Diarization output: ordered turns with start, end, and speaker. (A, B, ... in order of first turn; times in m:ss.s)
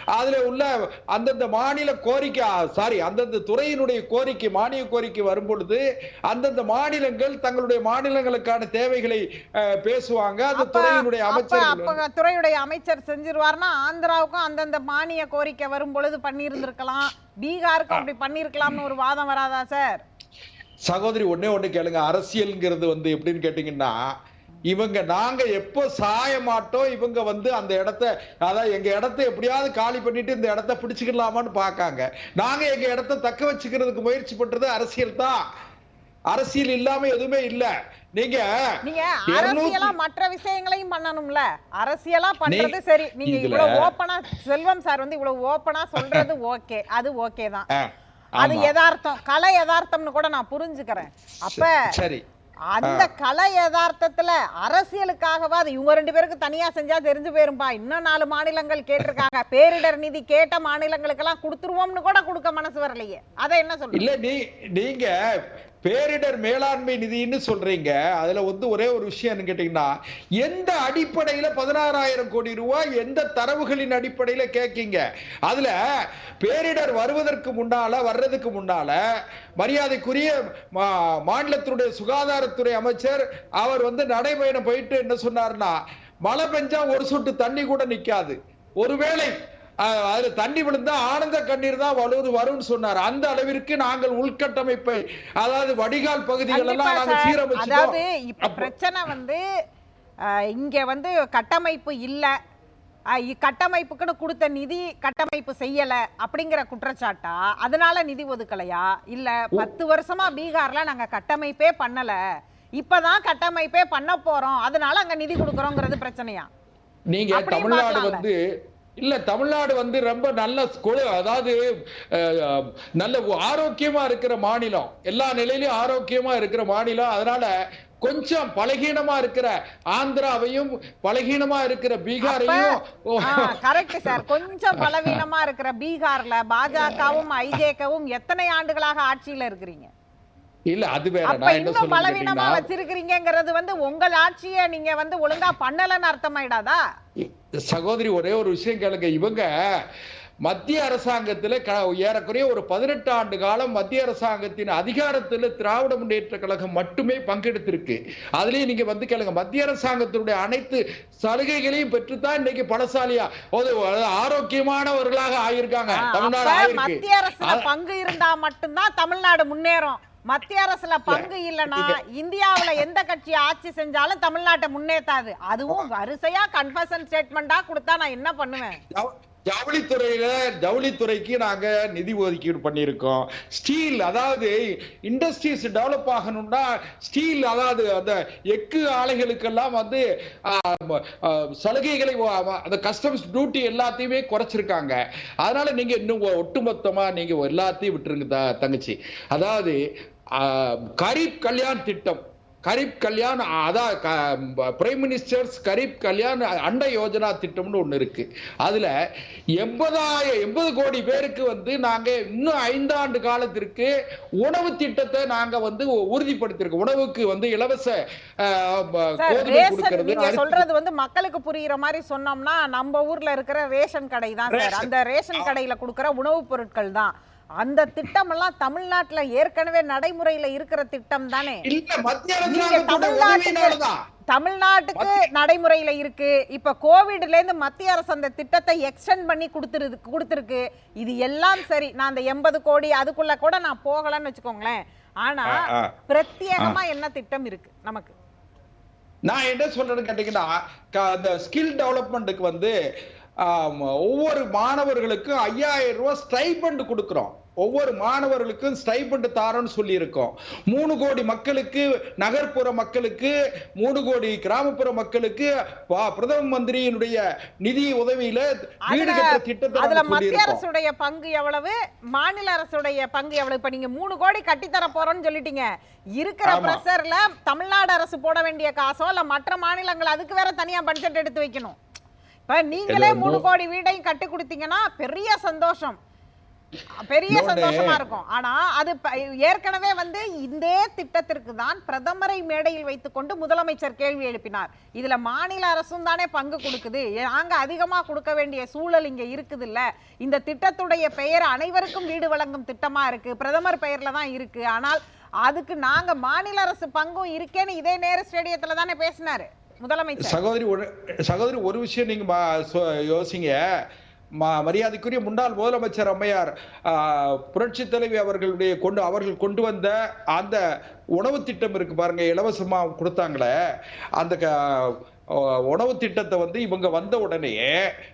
0:00.2-0:12.0 A
0:10.5-0:20.0 B
0:20.9-0:24.0 A
0:24.7-0:35.4 A
0:36.3-0:38.5 A
0:38.8-0:47.7 B
0:39.3-0:39.9 A
0:42.5-0:43.8 A
0:46.0-0:46.3 A
0:48.4-0:48.7 A
0:48.4-0:51.8 B
0:51.5-0:52.2 A
0:52.7-1:04.0 B
0:52.8-0:53.1 A
1:04.0-1:05.1 A
1:05.8-1:15.8 A
1:16.4-1:19.0 A
1:19.6-1:29.3 A
1:29.8-1:38.7 A
1:36.5-1:39.4 B
1:40.3-1:42.3 B
1:43.2-1:52.2 B
1:52.8-1:56.5 B
1:57.1-1:58.4 A
1:57.3-1:58.2 B
1:59.0-2:01.6 A
2:02.1-2:15.2 A
2:12.2-2:12.8 B
2:13.3-2:19.9 B
2:16.9-2:17.2 A
2:20.7-2:22.7 A
2:21.2-2:26.8 B
2:27.2-2:29.5 A
2:30.4-2:48.1 A
2:46.0-2:58.8 B
2:51.1-2:52.0 A
2:58.9-3:04.6 A
3:05.1-3:19.8 A
3:20.4-3:28.9 A
3:29.6-3:33.9 A
3:34.4-3:40.6 A
3:39.2-3:51.6 B
3:44.5-3:45.5 A
3:51.6-3:54.0 A
3:52.4-3:53.8 B
3:54.3-4:08.1 B
3:54.9-3:55.2 A
4:05.5-4:05.9 A
4:09.3-4:12.7 A
4:13.4-4:30.6 A
4:28.9-4:41.8 B
4:36.4-4:36.8 A
4:42.5-4:46.0 B
4:42.9-4:43.4 A
4:47.0-5:10.4 B
4:47.3-4:48.0 A
5:10.2-5:13.6 A
5:14.4-5:20.6 A
5:21.2-5:23.5 A
5:24.2-5:27.7 A